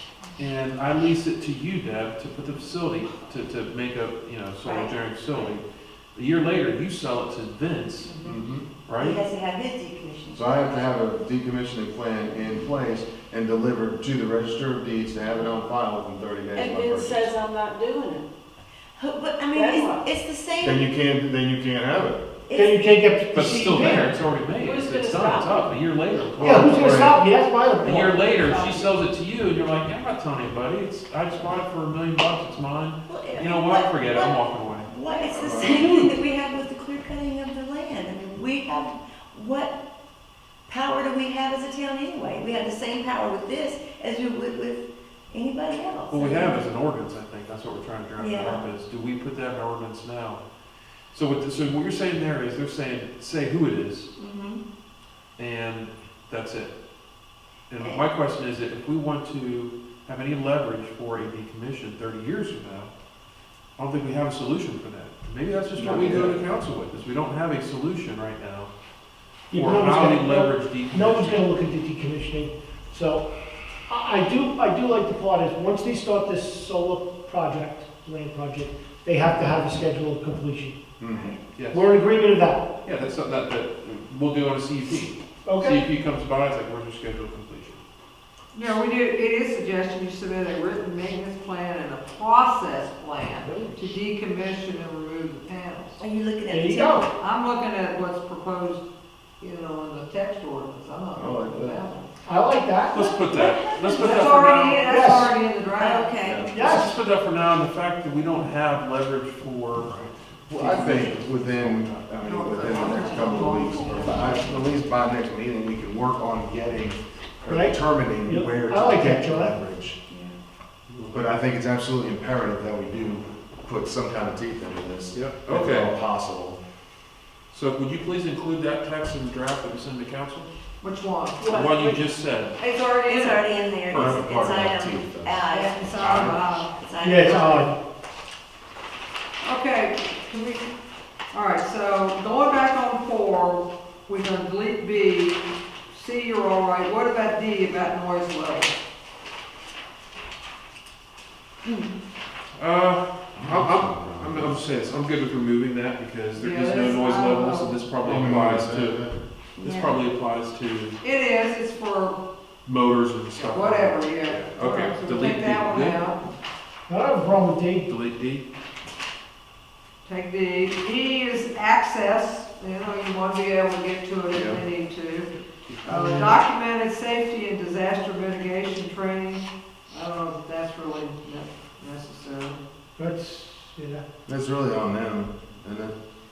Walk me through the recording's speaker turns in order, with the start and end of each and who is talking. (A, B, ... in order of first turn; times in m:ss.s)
0:00.4-0:05.6 A
0:04.6-0:05.5 B
0:06.1-0:08.2 A
0:08.2-0:08.7 C
0:08.9-0:09.2 A
0:09.0-0:10.5 B
0:10.3-0:17.3 C
0:16.5-0:18.3 D
0:19.0-0:20.8 B
0:19.5-0:20.0 D
0:20.6-0:22.2 C
0:22.5-0:22.9 B
0:22.5-0:24.1 E
0:23.3-0:27.2 A
0:24.6-0:25.8 D
0:26.4-0:27.2 C
0:26.4-0:28.2 E
0:27.8-0:34.9 A
0:28.5-0:28.9 D
0:33.1-0:39.8 B
0:35.3-0:35.9 C
0:35.7-0:36.1 A
0:40.7-0:46.6 B
0:46.1-0:50.4 A
0:48.2-0:48.6 B
0:51.1-0:54.1 A
0:54.2-0:54.6 B
0:55.4-0:56.7 A
0:57.7-1:02.9 A
0:57.8-0:58.0 B
1:03.8-1:08.7 A
1:05.7-1:06.4 C
1:09.5-1:13.2 E
1:09.5-1:11.4 A
1:13.9-1:20.8 E
1:21.0-1:21.3 C
1:21.1-1:21.4 B
1:21.5-1:21.8 A
1:21.7-1:22.6 E
1:22.8-1:27.8 A
1:25.4-1:25.8 E
1:28.5-1:36.0 F
1:36.0-1:37.1 B
1:36.5-1:37.1 E
1:37.2-1:38.8 F
1:39.4-1:42.1 F
1:41.2-1:41.8 C
1:42.2-1:43.1 E
1:42.9-1:44.9 A
1:43.3-1:44.3 B
1:43.9-1:46.1 F
1:44.9-1:45.3 E
1:45.8-1:46.5 B
1:46.2-1:46.6 C
1:46.5-1:47.0 E
1:46.5-1:49.9 A
1:49.8-2:00.0 C
1:50.5-1:52.0 A
1:52.2-1:54.5 F
1:57.5-1:59.5 E
2:00.1-2:00.4 B
2:00.9-2:01.3 A
2:01.1-2:06.6 C
2:05.1-2:05.9 A
2:07.5-2:10.5 A
2:10.8-2:11.5 F
2:11.4-2:12.1 D
2:11.5-2:12.5 A
2:12.6-2:13.5 F
2:13.0-2:16.0 B
2:13.9-2:14.6 A
2:13.9-2:15.4 C
2:15.5-2:16.7 F
2:16.0-2:16.4 A
2:16.8-2:17.7 B
2:17.0-2:17.7 E
2:19.4-2:20.7 F
2:21.3-2:28.7 F
2:32.6-2:39.0 A
2:33.4-2:34.6 C
2:36.3-2:37.8 F
2:38.0-2:39.2 C
2:39.6-2:40.0 B
2:39.6-2:41.0 A
2:41.0-2:42.2 F
2:42.6-2:46.0 A
2:43.4-2:46.2 F
2:46.9-2:47.9 E
2:47.9-2:48.4 A
2:50.0-2:55.3 F
2:54.3-2:54.6 C
2:55.7-2:56.3 A
2:55.8-3:02.6 F
3:03.0-3:04.0 E
3:04.3-3:05.9 C